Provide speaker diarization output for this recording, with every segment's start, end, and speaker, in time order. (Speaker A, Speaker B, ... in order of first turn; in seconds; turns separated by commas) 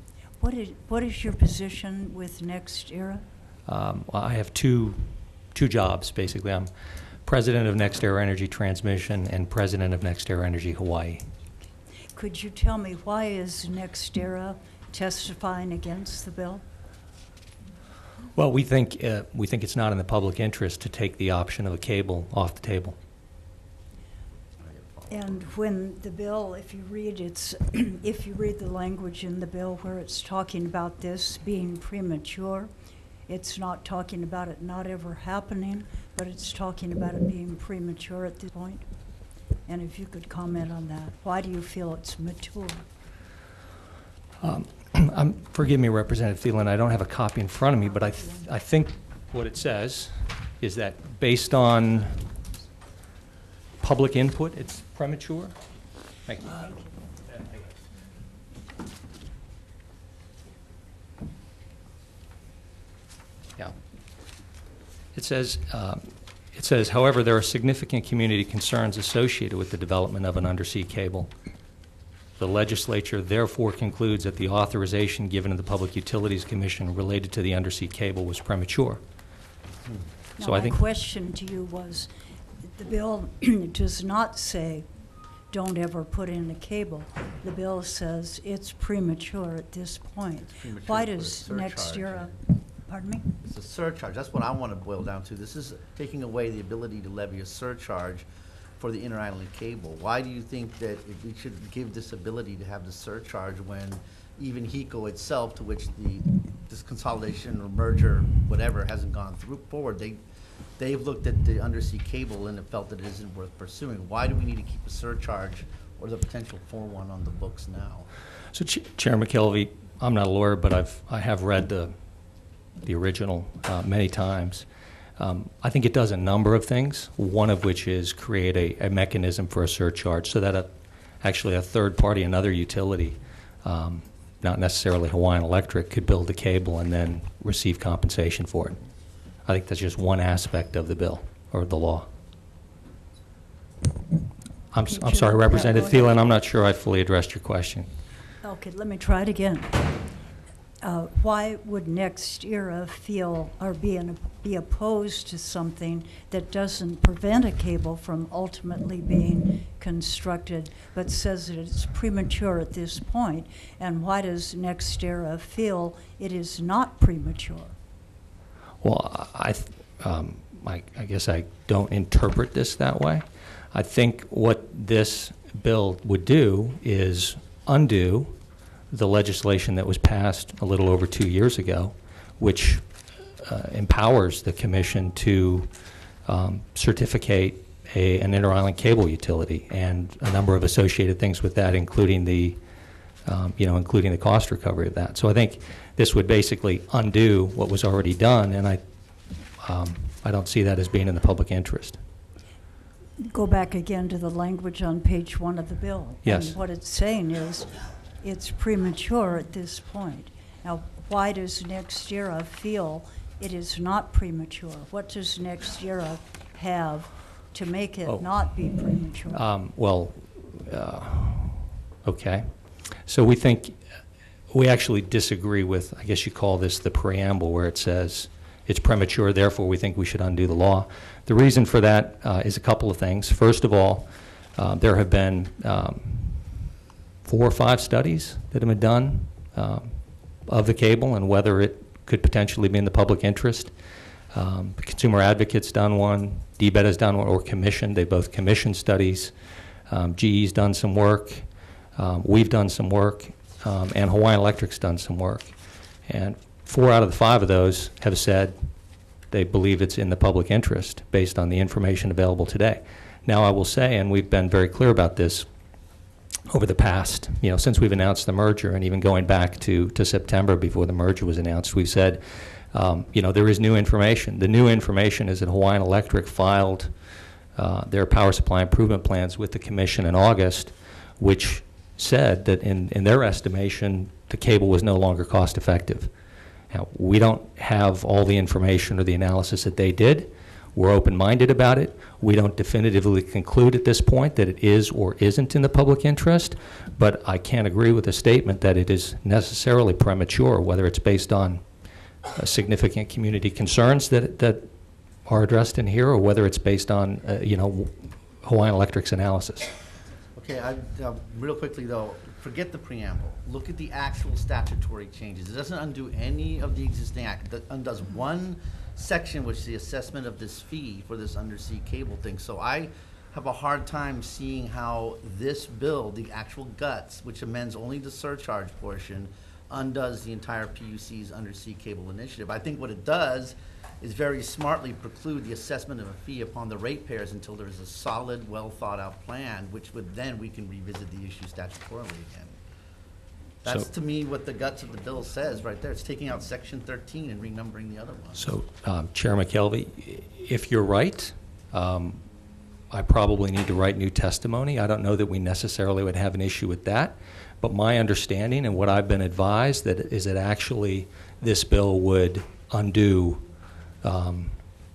Speaker A: 0.4-3.2, Speaker B: 3.7-5.0, Speaker B: 5.5-6.7, Speaker B: 7.2-11.2, Speaker A: 12.1-16.6, Speaker B: 18.3-23.0, Speaker C: 24.6-25.5, Speaker A: 25.1-32.7, Speaker A: 33.3-38.9, Speaker A: 39.7-42.9, Speaker B: 44.4-52.3, Speaker B: 53.8-55.5, Speaker B: 56.2-56.7, Speaker B: 65.2-71.3, Speaker B: 72.4-79.0, Speaker A: 80.4-82.1, Speaker B: 80.4-80.8, Speaker A: 82.6-84.9, Speaker A: 85.5-93.3, Speaker C: 90.3-92.4, Speaker C: 93.4-98.2, Speaker C: 98.8-110.2, Speaker C: 110.8-118.1, Speaker B: 118.5-121.9, Speaker B: 122.8-124.7, Speaker B: 125.2-130.7, Speaker B: 131.2-138.8, Speaker B: 139.4-142.1, Speaker B: 144.7-147.9, Speaker A: 144.8-146.0, Speaker A: 148.4-149.9, Speaker A: 150.8-167.8, Speaker B: 168.8-178.4, Speaker B: 178.9-182.9, Speaker B: 183.4-185.7, Speaker B: 186.3-192.6, Speaker B: 193.3-198.8, Speaker B: 199.6-202.0, Speaker A: 203.2-219.4, Speaker B: 206.2-206.6, Speaker B: 218.1-218.8, Speaker B: 219.3-223.8, Speaker B: 224.5-236.6, Speaker B: 237.2-243.7, Speaker B: 244.3-249.3, Speaker B: 249.9-251.4, Speaker B: 252.0-255.5, Speaker B: 256.1-258.6, Speaker B: 259.3-265.5, Speaker B: 266.5-276.9, Speaker B: 277.6-286.1, Speaker B: 286.7-301.6, Speaker B: 302.4-304.7, Speaker B: 305.2-309.7, Speaker C: 310.4-342.6, Speaker C: 343.6-348.5, Speaker B: 348.4-352.2, Speaker B: 352.9-363.4, Speaker B: 364.0-364.6